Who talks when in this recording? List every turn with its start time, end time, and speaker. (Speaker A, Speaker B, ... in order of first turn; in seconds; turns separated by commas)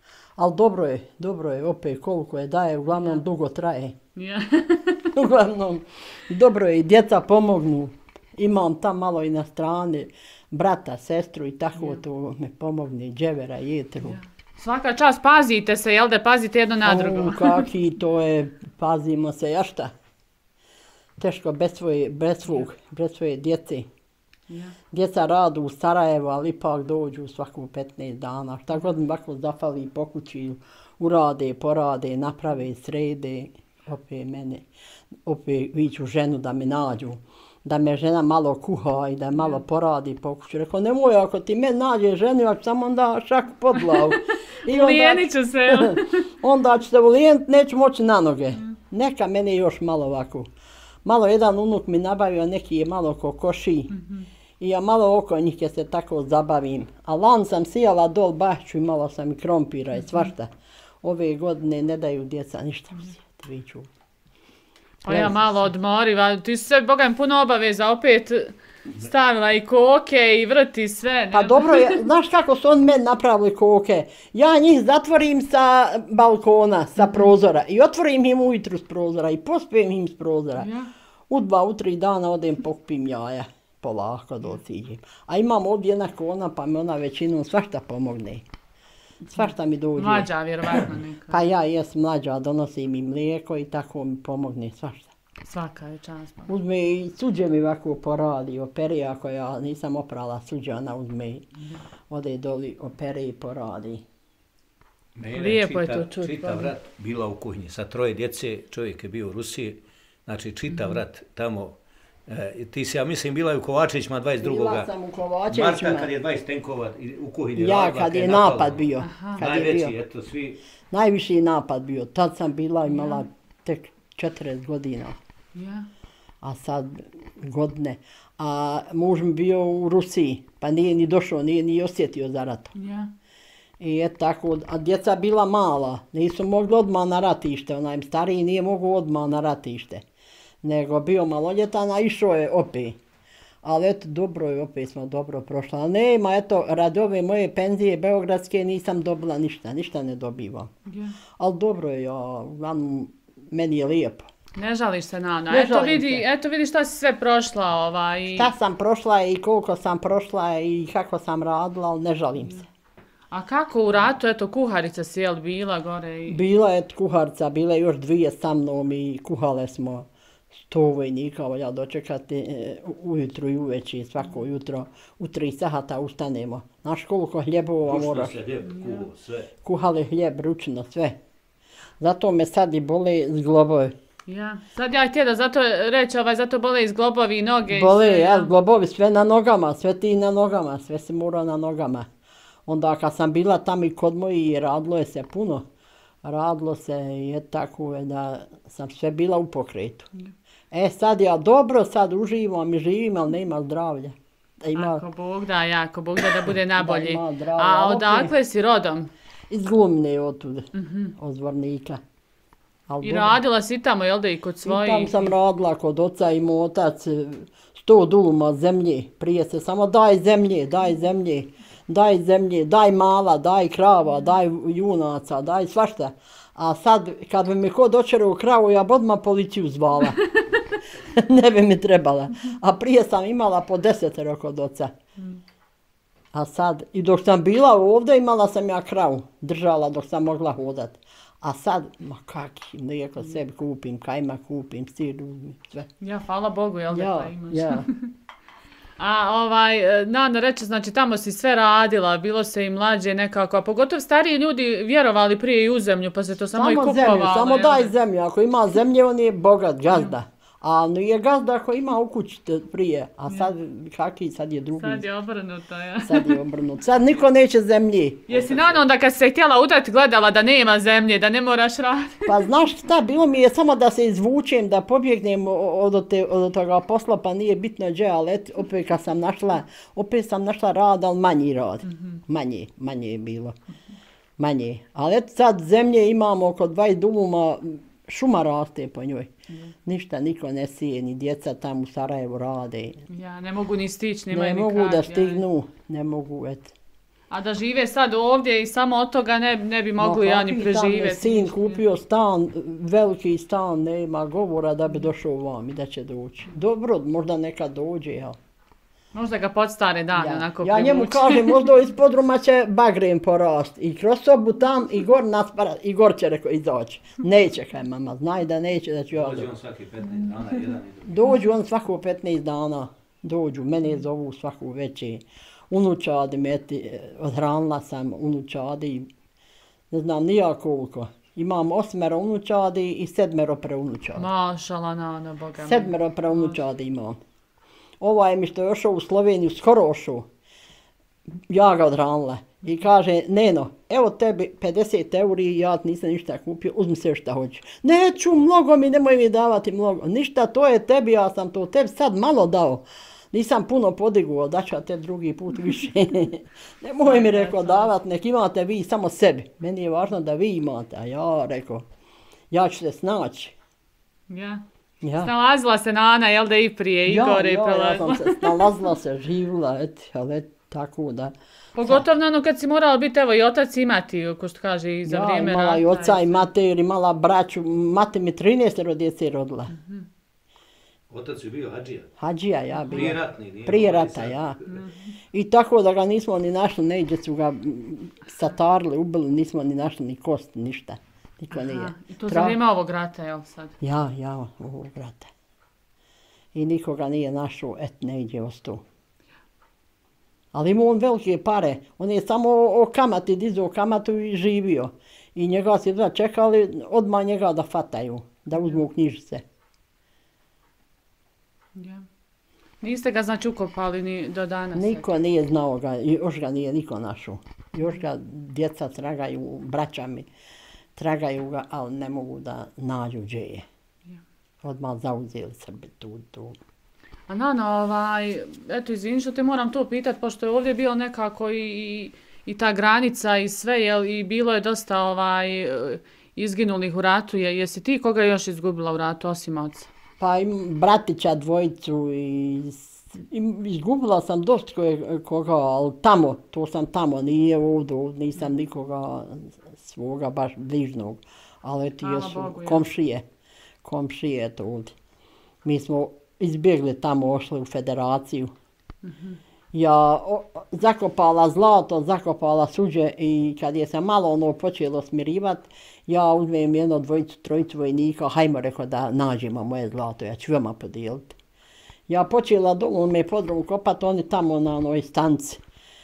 Speaker A: 0.4-4.0, Speaker B: 2.9-3.2, Speaker B: 4.2-5.1, Speaker A: 5.1-14.2, Speaker B: 14.0-17.6, Speaker A: 16.8-19.9, Speaker A: 21.2-23.9, Speaker B: 24.5-24.7, Speaker A: 24.9-34.6, Speaker A: 35.3-50.5, Speaker B: 43.8-44.1, Speaker B: 44.6-46.2, Speaker A: 51.0-54.0, Speaker A: 54.6-60.5, Speaker A: 61.0-63.9, Speaker B: 65.0-72.1, Speaker A: 65.1-65.5, Speaker A: 71.3-80.7, Speaker B: 80.6-80.9, Speaker A: 81.3-88.4, Speaker A: 89.2-95.1, Speaker B: 89.4-91.4, Speaker B: 95.5-96.5, Speaker A: 96.5-101.5, Speaker A: 102.1-104.0, Speaker C: 105.2-114.9, Speaker B: 105.4-106.7, Speaker A: 114.4-116.1, Speaker C: 115.5-120.6, Speaker A: 117.6-119.9, Speaker B: 119.0-119.4, Speaker A: 120.9-125.2, Speaker B: 122.9-123.2, Speaker B: 125.5-125.9, Speaker A: 126.4-132.7, Speaker B: 132.8-133.1, Speaker A: 133.8-140.0, Speaker A: 140.6-143.0, Speaker A: 143.6-150.7, Speaker B: 150.9-151.2, Speaker A: 151.4-154.3, Speaker B: 154.6-158.5, Speaker A: 155.5-156.2, Speaker A: 158.3-162.7, Speaker B: 163.3-166.4, Speaker A: 166.3-170.1, Speaker A: 170.7-178.4, Speaker C: 177.8-179.5, Speaker B: 178.7-179.1, Speaker A: 179.6-181.2, Speaker A: 182.0-183.9, Speaker B: 184.3-188.5, Speaker A: 187.7-192.1, Speaker A: 192.7-195.7, Speaker A: 196.2-200.1, Speaker A: 200.7-205.0, Speaker B: 204.8-209.1, Speaker A: 206.7-208.3, Speaker A: 209.5-212.0, Speaker B: 210.7-211.1, Speaker A: 212.9-213.4, Speaker B: 213.0-215.3, Speaker A: 214.7-230.2, Speaker A: 231.1-234.9, Speaker A: 236.3-245.9, Speaker B: 246.0-248.1, Speaker A: 246.9-247.9, Speaker B: 249.0-257.9, Speaker A: 256.5-265.1, Speaker B: 259.9-260.1, Speaker B: 264.8-266.4, Speaker A: 266.0-268.8, Speaker B: 268.3-272.5, Speaker A: 272.3-283.6, Speaker A: 284.4-289.3, Speaker A: 289.9-293.0, Speaker B: 293.1-295.4, Speaker A: 294.3-296.7, Speaker B: 297.3-301.8, Speaker A: 300.0-308.4, Speaker B: 309.1-311.6, Speaker A: 310.2-319.5, Speaker C: 319.1-321.2, Speaker A: 321.1-329.1, Speaker A: 329.9-334.3, Speaker B: 334.2-336.6, Speaker A: 335.6-337.2, Speaker A: 338.0-340.3, Speaker A: 341.5-361.9, Speaker B: 357.0-357.9, Speaker A: 362.5-363.6, Speaker B: 364.3-364.6, Speaker A: 365.0-365.3, Speaker B: 365.2-368.8, Speaker A: 367.1-372.0, Speaker B: 371.8-376.5, Speaker A: 375.1-379.7, Speaker B: 379.7-380.0, Speaker C: 381.1-382.1, Speaker A: 382.2-384.6, Speaker B: 382.8-383.1, Speaker C: 382.9-384.8, Speaker B: 384.7-385.1, Speaker A: 385.3-392.6, Speaker B: 391.5-393.8, Speaker A: 393.8-395.3, Speaker A: 396.5-398.8, Speaker A: 400.5-409.4, Speaker B: 411.8-412.1, Speaker B: 412.8-415.1, Speaker A: 414.8-420.3, Speaker A: 421.0-423.6, Speaker A: 424.6-426.6, Speaker B: 427.3-439.9, Speaker A: 440.2-453.2, Speaker B: 452.0-452.9, Speaker A: 453.8-454.9, Speaker A: 455.6-458.5, Speaker B: 459.0-459.4, Speaker A: 459.7-471.4, Speaker A: 472.1-475.6